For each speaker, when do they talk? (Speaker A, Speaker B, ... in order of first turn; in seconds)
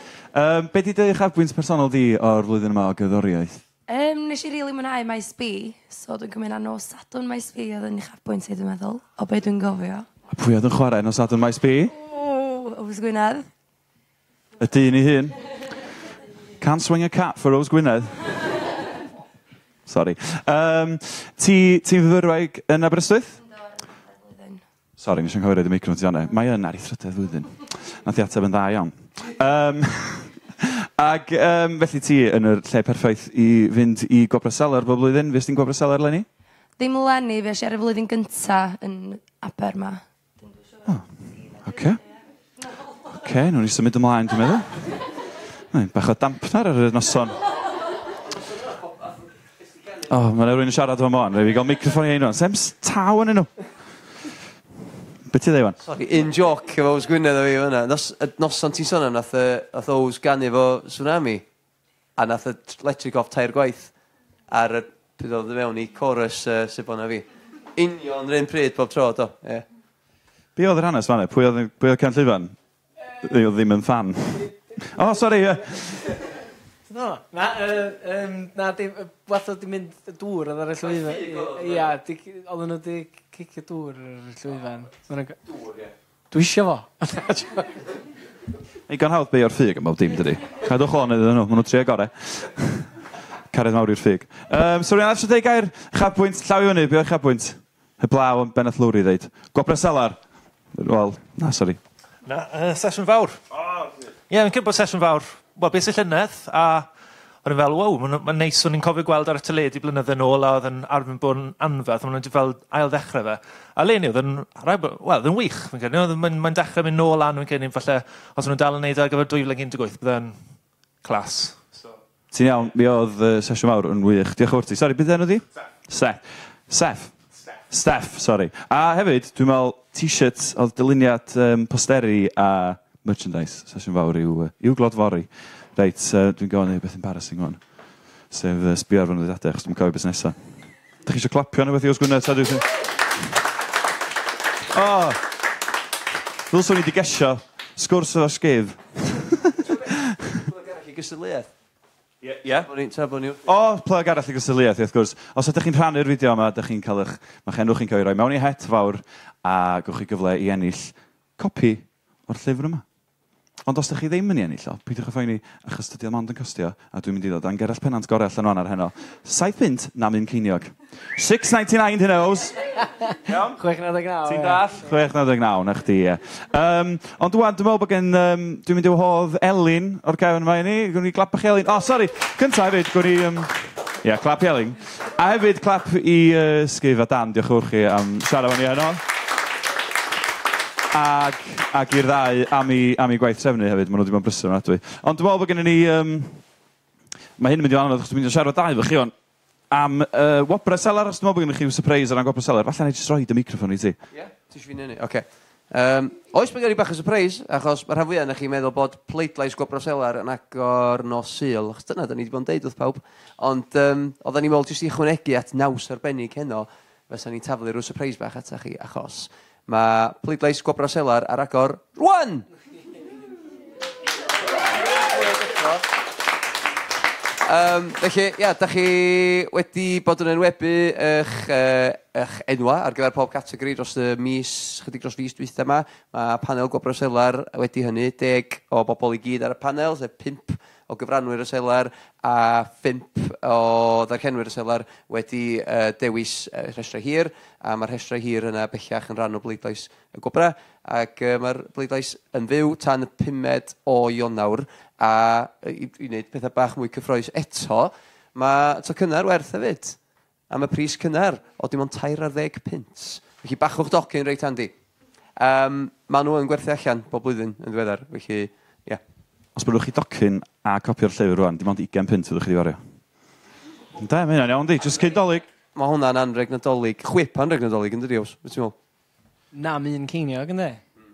Speaker A: 0.3-3.6, 10.3-11.9, 14.6-15.4, 16.6-18.3, 19.9-23.4, 25.0-36.3, 41.6-42.0, 43.2-44.9, 45.7-47.4, 50.1-53.7, 55.3-55.8, 70.6-72.6, 73.2-76.2, 88.9-92.9, 93.5-100.2, 100.7-101.8, 103.6-104.1, 122.3-137.6, 138.3-140.4, 141.0-142.7, 144.7-145.2, 146.5-150.2, 152.2-152.7, 153.4-162.8, 163.7-172.6, 173.3-173.6, 174.2-189.0, 190.9-196.4, 197.4-199.1, 199.7-204.0, 269.6-272.8, 274.0-275.5
Speaker B: 3.9-10.1, 11.9-13.5, 23.4-24.6, 36.8-40.9
Speaker C: 55.8-61.5, 62.2-63.9, 64.5-69.7, 81.1-81.9, 85.6-85.9, 150.4-151.5, 152.6-153.4, 204.1-222.5, 227.4-260.0, 260.5-264.7, 265.4-269.0, 275.8-278.8
Speaker D: 76.9-85.4, 86.3-87.8, 172.8-174.6, 279.5-280.8
Speaker E: 102.2-103.4, 104.3-106.9, 107.4-120.4, 121.0-121.7